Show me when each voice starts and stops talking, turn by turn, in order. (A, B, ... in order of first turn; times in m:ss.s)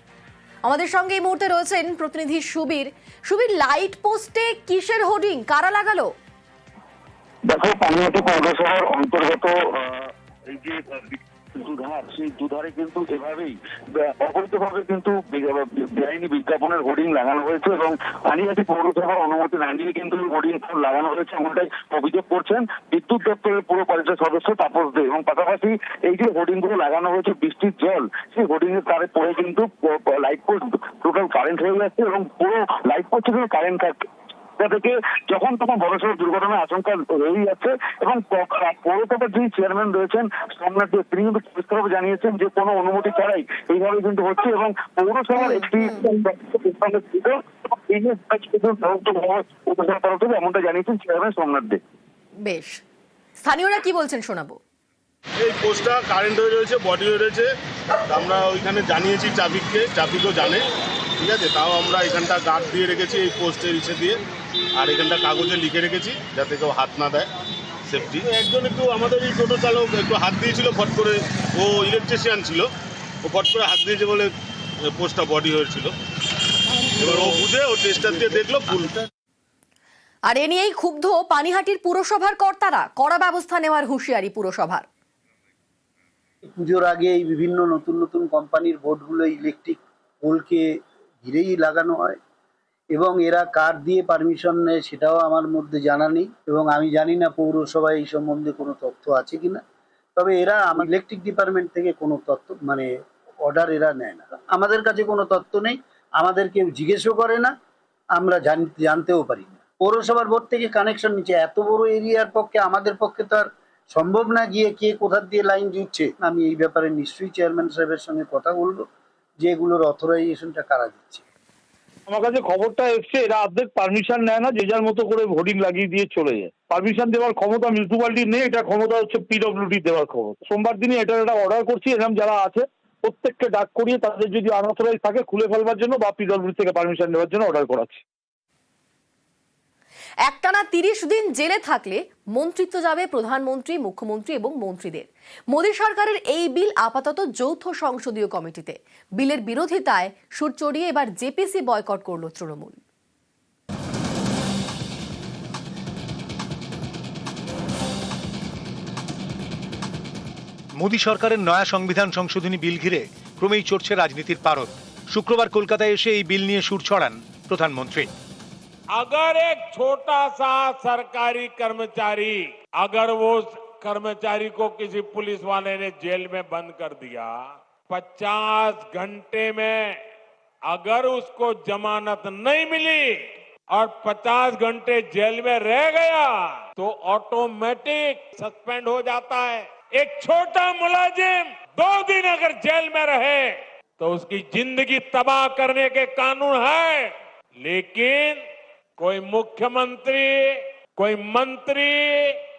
0:00.6-0:06.1 A
0:07.4-0:34.0 B
0:34.6-0:51.8 B
0:45.4-0:46.0 A
0:52.4-0:52.8 A
0:53.4-0:54.6 A
0:55.4-0:57.5 C
0:58.1-1:00.6 C
1:01.2-1:04.2 C
1:04.8-1:07.3 C
1:07.9-1:12.7 C
1:13.2-1:14.3 C
1:14.9-1:15.9 C
1:17.0-1:18.9 D
1:17.0-1:18.9 C
1:20.3-1:24.8 A
1:26.5-1:30.7 D
1:31.2-1:32.2 D
1:32.9-1:39.6 D
1:40.2-1:42.9 D
1:43.4-1:47.5 D
1:48.1-1:58.9 D
1:59.4-2:01.2 D
2:02.2-2:12.6 E
2:13.2-2:18.0 E
2:20.3-2:32.8 A
2:40.8-2:48.1 F
2:48.9-2:57.4 G
2:57.9-3:00.0 G
3:00.7-3:03.2 G
3:03.7-3:18.4 G
3:19.0-3:22.3 G